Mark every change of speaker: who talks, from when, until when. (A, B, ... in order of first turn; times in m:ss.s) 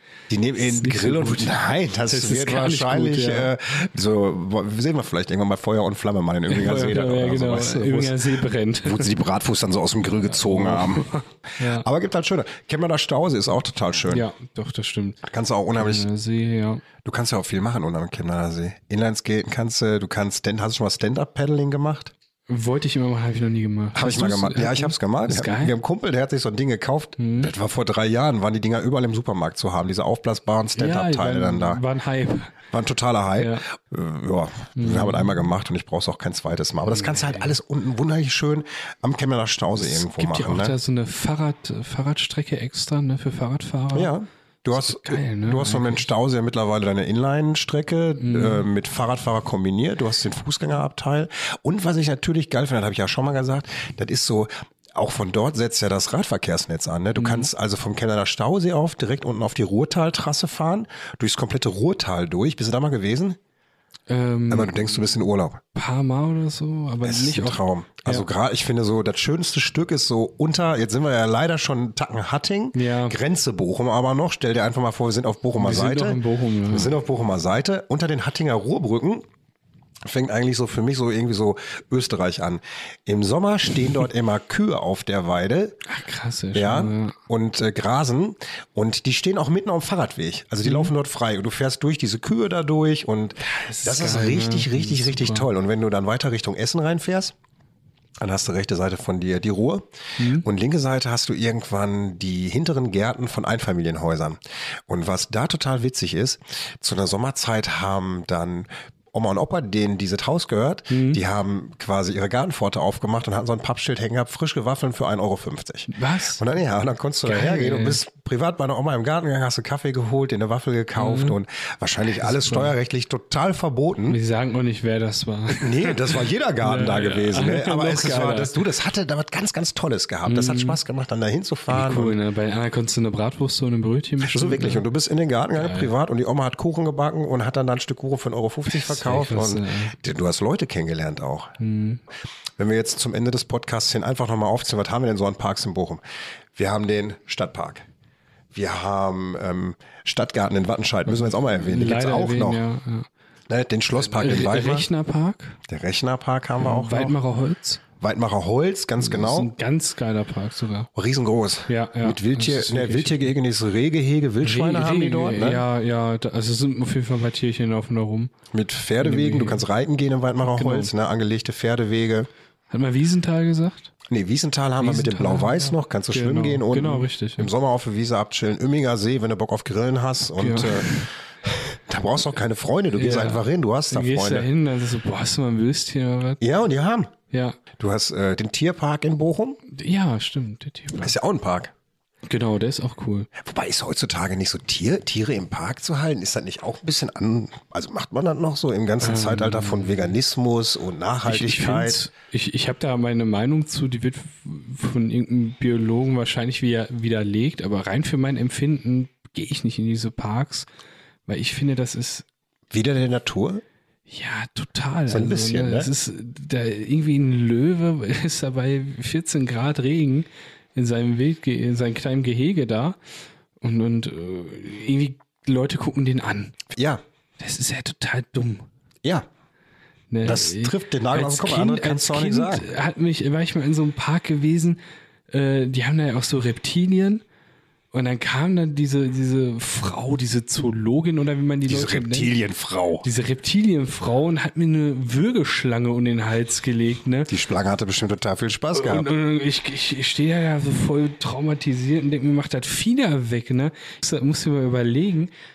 0:00.3-0:08.2 A
0:00.6-0:03.5 B
0:06.5-0:09.1 B
0:08.8-0:14.3 A
0:10.2-0:11.8 B
0:14.1-0:15.2 B
0:15.2-0:16.1 A
0:15.8-0:16.8 B
0:17.0-0:22.1 A
0:22.5-0:25.7 B
0:23.9-0:31.8 A
0:27.2-0:27.5 B
0:30.8-0:32.5 B
0:32.7-0:40.7 A
0:33.4-0:33.6 B
0:34.8-0:35.4 B
0:36.9-0:37.6 B
0:39.8-0:44.1 B
0:43.9-1:03.4 A
0:44.7-0:46.1 B
0:48.2-0:48.6 B
0:57.2-0:57.5 B
1:04.1-1:05.0 B
1:04.5-1:05.6 A
1:05.7-1:08.3 B
1:07.0-1:19.2 A
1:12.7-1:13.2 B
1:15.6-1:16.9 B
1:20.0-1:25.8 A
1:25.8-1:27.2 B
1:26.5-1:37.3 A
1:30.6-1:30.9 B
1:33.4-1:35.5 B
1:38.2-1:39.9 A
1:40.2-1:40.4 B
1:40.4-2:04.2 A
1:50.9-1:51.2 B
1:55.9-1:56.4 B
1:57.2-1:58.0 B
2:01.0-2:01.4 B
2:02.1-2:02.7 B
2:04.1-2:08.5 B
2:05.6-2:12.2 A
2:10.2-2:10.8 B
2:11.7-2:14.8 B
2:14.2-2:21.5 A
2:15.6-2:15.9 B
2:18.7-2:19.9 B
2:21.6-2:22.0 B
2:22.6-2:26.0 A
2:26.5-2:27.8 A
2:28.5-2:32.6 A
2:31.0-2:33.1 B
2:33.5-2:34.9 A
2:34.0-2:35.6 B
2:35.7-2:37.2 A
2:36.6-2:37.8 B
2:38.0-2:39.5 A
2:39.0-2:40.9 B
2:40.9-2:45.6 A
2:41.7-2:43.3 B
2:44.4-2:48.3 B
2:48.5-2:52.3 A
2:49.0-2:49.6 B
2:50.5-2:50.9 B
2:52.7-2:53.9 B
2:54.1-3:04.5 A
2:54.8-2:57.5 B
3:00.4-3:01.1 B
3:02.9-3:06.4 B
3:06.4-3:07.1 A
3:07.3-3:07.6 B
3:07.8-3:09.6 A
3:09.7-3:11.1 B
3:11.0-3:11.7 A
3:12.2-3:13.3 B
3:13.4-3:22.0 A
3:19.0-3:20.1 B
3:21.2-3:30.7 B
3:31.3-3:32.3 B
3:32.7-3:33.6 A
3:34.1-3:43.0 B
3:35.1-3:35.9 A
3:43.6-3:46.6 B
3:46.7-3:47.0 A
3:47.4-3:48.6 B
3:50.1-3:54.8 B
3:50.2-3:52.6 A
3:55.3-3:57.2 B
3:57.9-4:02.4 B
4:01.6-4:03.0 A
4:03.0-4:07.3 B
4:07.3-4:09.1 A
4:08.7-4:15.3 B